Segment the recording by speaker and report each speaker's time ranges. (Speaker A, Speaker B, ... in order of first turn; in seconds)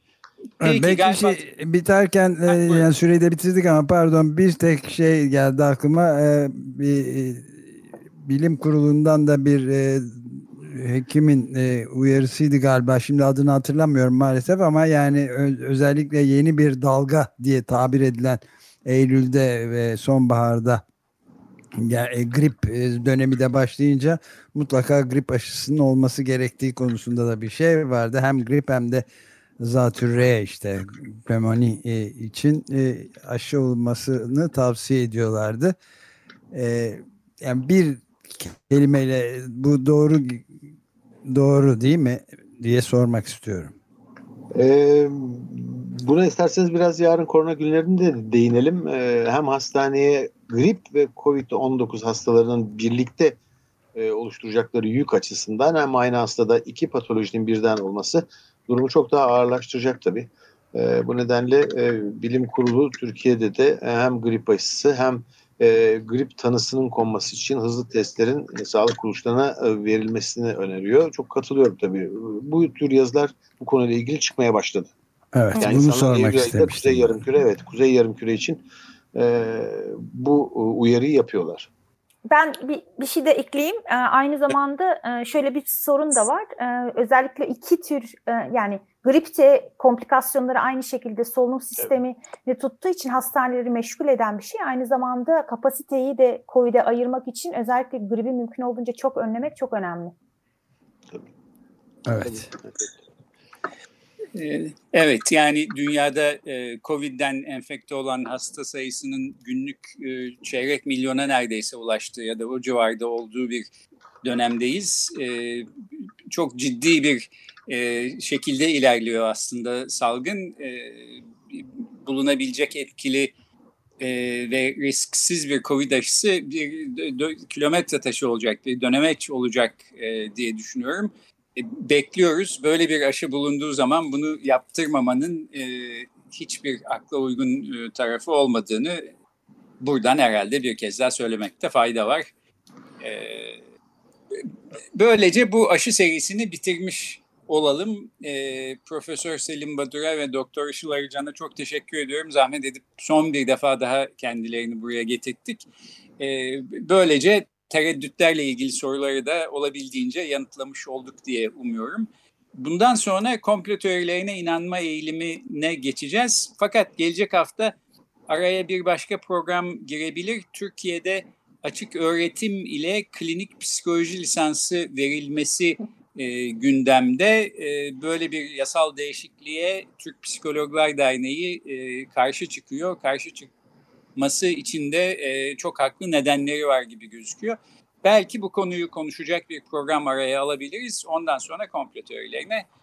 Speaker A: 0.6-20.8, 21.8-29.1, 29.6-35.8, 36.5-40.5, 41.3-43.7, 75.3-77.2, 102.1-102.5
Speaker B: 0.6-1.4, 2.5-2.9, 104.3-113.7, 114.2-115.7, 116.3-123.3, 124.0-139.1, 139.8-142.3, 143.0-143.6, 144.3-155.7, 156.2-167.7, 168.3-183.5, 184.2-192.6
Speaker C: 44.5-53.4, 54.0-74.9, 75.6-78.6, 79.1-81.7, 102.2-103.0
Speaker D: 82.3-100.1